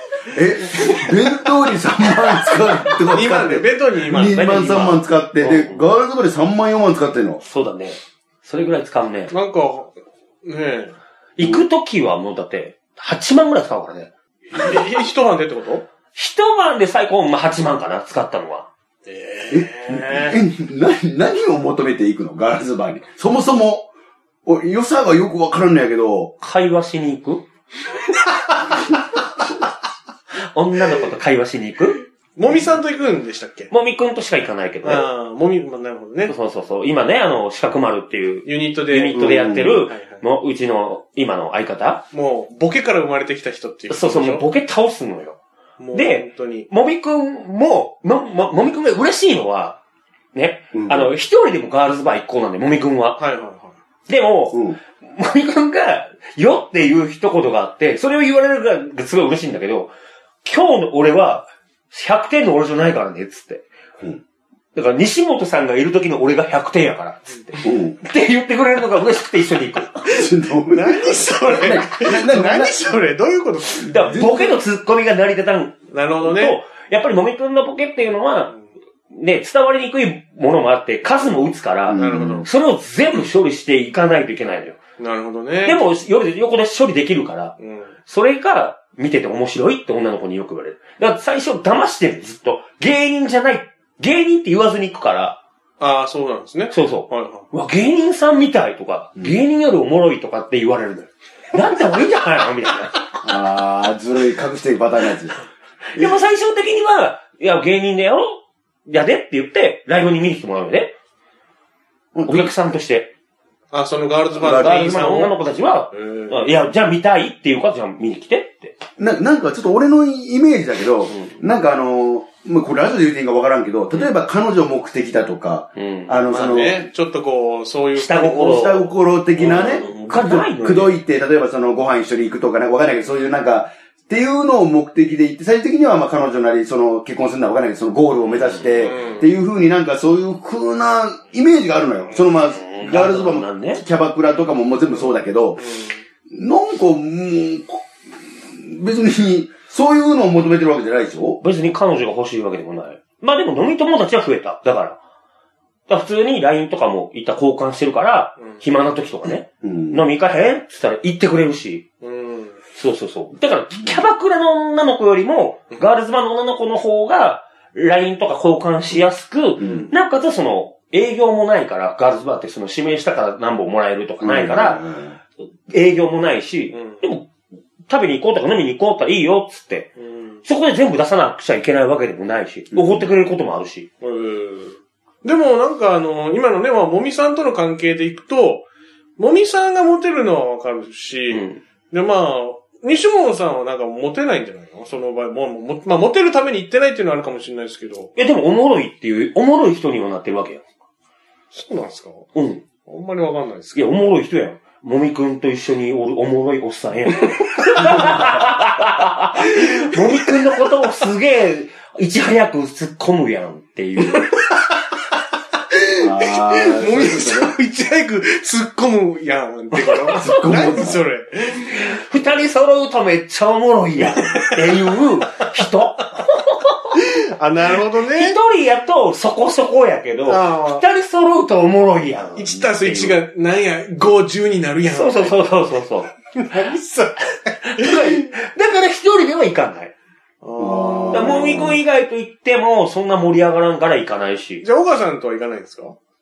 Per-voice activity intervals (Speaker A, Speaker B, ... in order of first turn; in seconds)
Speaker A: 0.3-7.4, 19.5-23.9, 24.4-26.3, 39.1-39.8, 50.7-51.1, 54.5-54.8, 67.6-68.0, 70.0-72.8, 73.9-74.6, 81.9-82.5, 103.2-105.4, 112.1-112.5, 114.4-115.0, 119.0-126.9, 128.3-145.7, 146.3-147.8, 148.4-151.4, 159.6-160.0, 169.6-169.9, 174.2-175.2, 182.7-183.1, 216.0-217.5, 220.2-221.0, 240.6-241.8
Speaker B: 3.1-4.8, 9.3-10.9, 14.5-15.8, 19.1-20.4, 32.4-33.7, 34.8-36.3, 38.5-39.2, 39.9-40.2, 42.1-44.5, 45.8-46.7, 53.2-53.8, 70.7-73.9, 75.9-76.6, 82.0-82.5, 85.0-85.8, 87.6-87.9, 95.8-97.5, 113.7-115.4, 115.9-116.5, 126.3-128.8, 129.4-130.3, 138.8-139.3, 144.9-146.0, 162.0-162.6, 176.7-177.0, 180.0-180.4, 184.0-188.7, 189.2-198.1, 201.5-202.3, 202.8-203.8, 215.7-221.9, 224.2-224.9, 226.9-228.4, 230.3-230.8, 232.4-235.4, 236.3-238.3, 240.4-241.4, 244.6-246.0
Speaker C: 4.2-5.9, 7.4-9.3, 11.4-14.1, 16.1-18.7, 26.4-27.4, 30.4-32.0, 33.7-35.1, 36.3-42.0, 43.9-45.4, 45.9-49.8, 50.3-53.2, 54.1-59.9, 60.4-63.6, 64.7-70.2, 73.8-78.5, 79.1-84.8, 85.6-87.5, 88.1-95.4, 96.7-103.0, 105.9-110.9, 112.3-113.1, 114.4-118.8, 125.8-126.2, 128.0-128.9, 129.5-131.0, 138.3-138.7, 142.5-143.8, 151.4-155.0, 155.9-161.9, 162.8-174.8, 175.7-177.3, 177.9-179.9, 180.4-183.9, 191.3-191.6, 198.2-200.6, 202.3-202.6, 203.7-214.3, 219.8-220.6, 221.7-227.0, 228.0-233.2, 234.9-236.1, 237.6-239.9, 241.1-244.6